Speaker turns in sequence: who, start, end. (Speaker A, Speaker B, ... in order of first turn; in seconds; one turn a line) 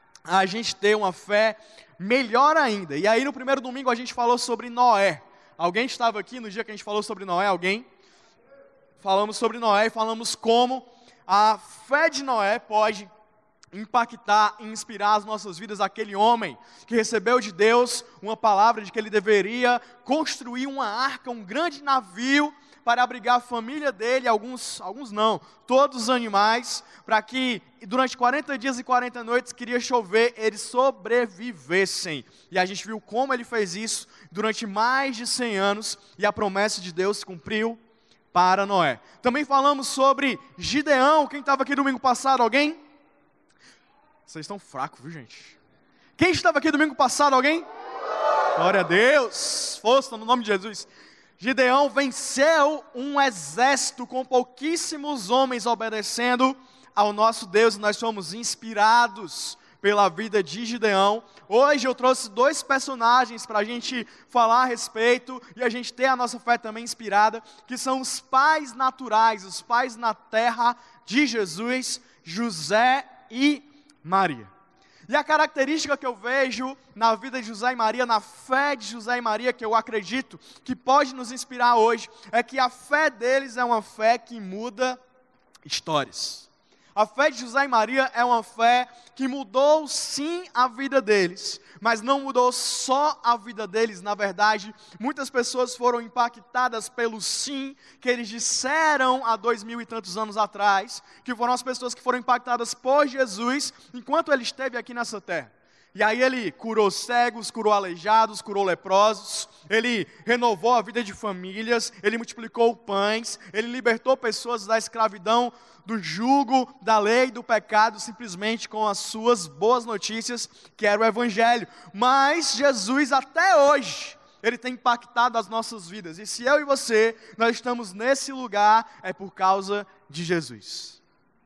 Speaker A: 0.3-7.9
Speaker A: 9.0-13.1
Speaker A: 13.7-37.8
Speaker A: 38.3-42.8
Speaker A: 44.3-45.6
Speaker A: 46.2-47.6
Speaker A: 48.5-74.5
Speaker A: 75.1-85.0
Speaker A: 85.7-131.0